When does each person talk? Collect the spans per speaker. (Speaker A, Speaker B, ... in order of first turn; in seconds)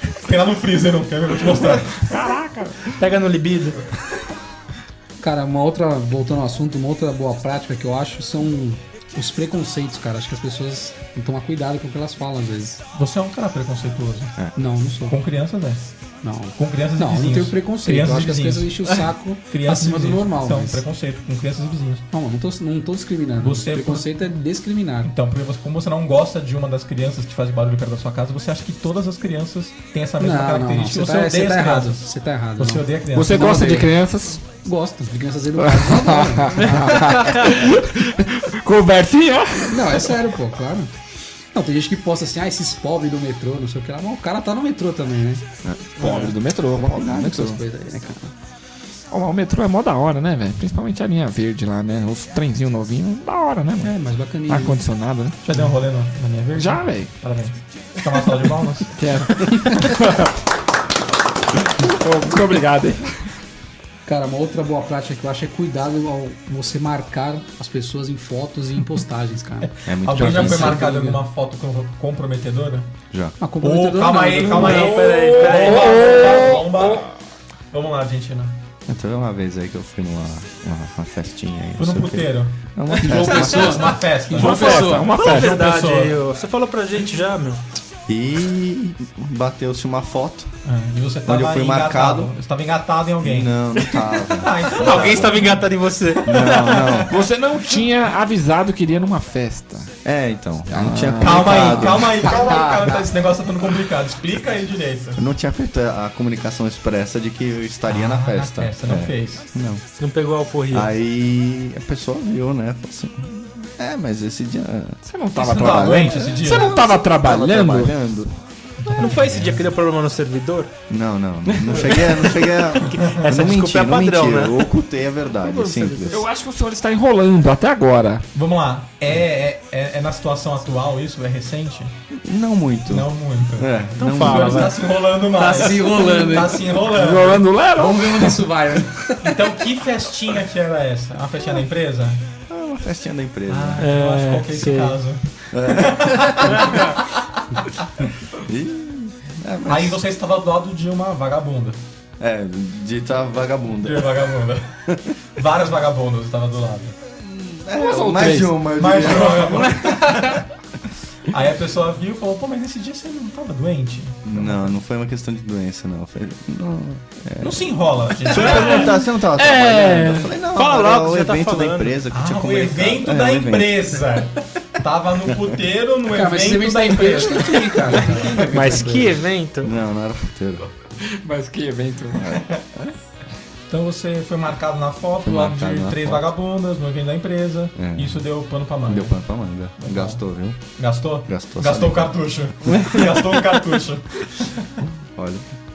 Speaker A: 0.2-2.0, 12.9-14.3, 15.1-15.8, 16.6-18.8, 19.5-22.1, 23.4-24.1, 25.0-33.4, 55.4-58.9, 69.8-72.9, 73.6-77.1, 77.7-78.5, 81.8-86.2, 90.6-93.5, 94.3-95.6, 96.4-97.0, 101.2-105.2, 107.9-109.5, 115.3-116.8, 118.8-119.7, 128.3-131.9, 132.9-137.6, 139.2-142.3, 143.5-147.1, 149.7-151.8, 153.8-157.0, 158.7-160.4, 161.3-164.7, 167.4-168.9, 172.1-177.8, 178.4-178.7, 183.7-189.2, 189.8-190.2, 190.8-194.2
Speaker B: 2.0-2.9, 33.1-34.4, 35.6-40.1, 46.0-47.6, 49.1-53.9, 54.5-55.4, 56.5-57.1, 58.9-60.3, 61.7-63.1, 74.6-77.0, 84.3-85.6, 97.0-99.9, 100.7-101.9, 115.0-117.9, 126.1-128.2, 136.9-138.5, 157.7-158.6, 181.1-182.3
Speaker C: 3.0-3.8, 74.5-76.1, 84.3-87.6, 94.8-96.7, 110.0-110.9, 118.9-120.7, 121.6-124.6, 125.5-126.0, 134.0-134.8, 143.8-145.0, 168.4-172.0, 178.4-179.7
Speaker D: 5.2-12.8, 14.5-15.2, 16.2-20.8, 22.1-25.1, 30.2-33.9, 34.6-37.2, 39.7-40.9, 41.5-45.4, 46.9-48.3, 53.8-54.8, 64.0-71.2, 73.4-74.8, 83.0-85.2, 102.3-103.0, 135.3-136.7, 137.7-139.4, 176.1-179.2
Speaker E: 47.1-47.5, 69.8-70.9, 73.1-73.3, 78.9-84.0, 88.1-90.5, 91.2-92.3, 93.2-95.6, 96.2-97.2, 100.0-102.3, 105.2-109.8, 110.7-115.0, 116.4-118.3, 120.9-126.2, 132.1-134.7, 142.5-143.9, 145.5-146.7, 148.3-150.0, 152.2-154.2, 157.2-159.9, 164.2-174.0, 179.6-180.7, 182.1-182.9, 185.2-186.3, 187.7-188.2, 188.9-190.6, 191.2-192.2, 195.1-195.4